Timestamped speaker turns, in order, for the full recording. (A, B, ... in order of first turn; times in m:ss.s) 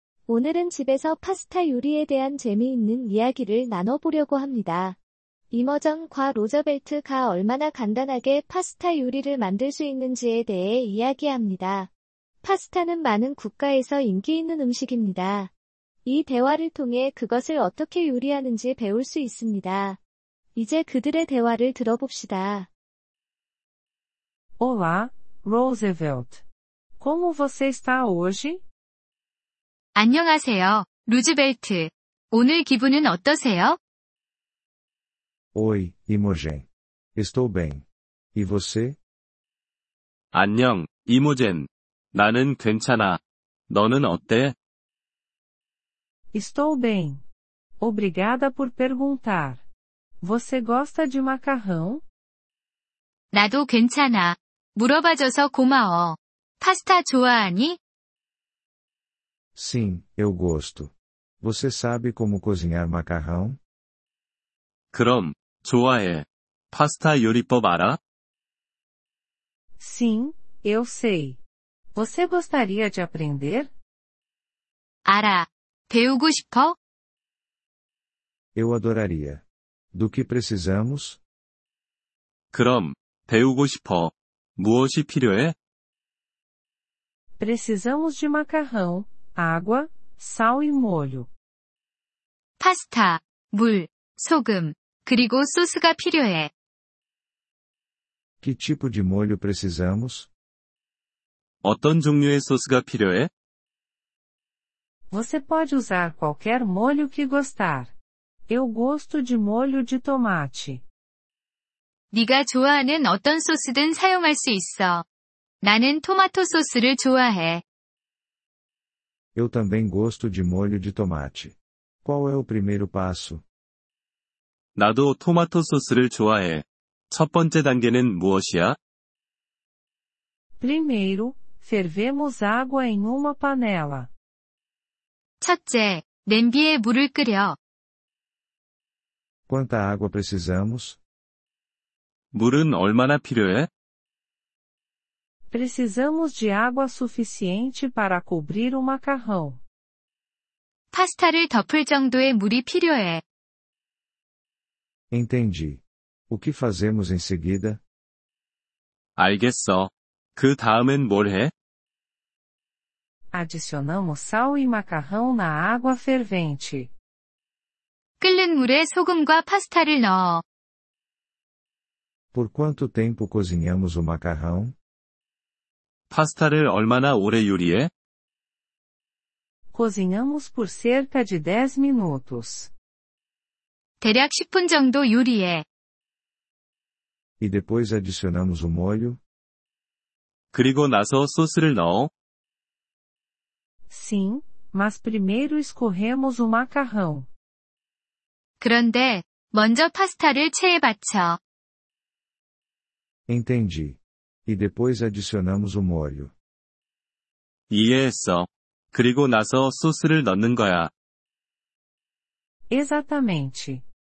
0:00.3-0:05.0 A
0:05.5-0:11.9 A
0:12.4-0:15.5 A
0:16.0-0:20.0 A
0:20.6-0:22.7 A
0:24.6-0:26.4 B
0:27.0-0:28.6 B
0:30.0-0:33.8 C
0:35.6-0:39.0 D
0:40.3-0:44.6 E
0:46.3-0:47.2 B
0:47.8-0:49.7 B
0:50.2-0:52.0 B
0:53.3-0:57.8 C
0:59.6-1:03.6 D
1:04.9-1:08.0 E
1:09.8-1:11.4 B
1:11.9-1:13.7 B
1:15.1-1:16.8 C
1:18.6-1:19.4 D
1:19.9-1:21.2 D
1:22.5-1:25.6 E
1:27.4-1:31.3 B
1:32.6-1:36.5 C
1:38.4-1:40.3 D
1:41.6-1:43.3 E
1:45.1-1:47.9 B
1:48.5-1:50.8 B
1:52.1-1:55.1 C
1:55.6-1:57.6 C
1:59.3-2:03.4 D
2:04.8-2:08.8 E
2:10.6-2:14.1 B
2:15.4-2:17.6 C
2:19.5-2:21.0 D
2:22.3-2:23.7 E
2:25.5-2:29.6 B
2:30.9-2:33.2 C
2:35.1-2:37.8 D
2:39.2-2:41.5 E
2:43.3-2:46.9 B
2:48.2-2:50.4 C
2:52.3-2:54.8 D
2:56.1-2:57.9 E
2:59.7-3:02.7 B
3:04.0-3:05.6 C
3:07.4-3:09.2 D
3:10.5-3:12.1 E
3:13.9-3:17.3 B
3:18.6-3:21.4 C
3:23.3-3:26.3 D
3:27.7-3:30.9 E
3:32.7-3:33.8 B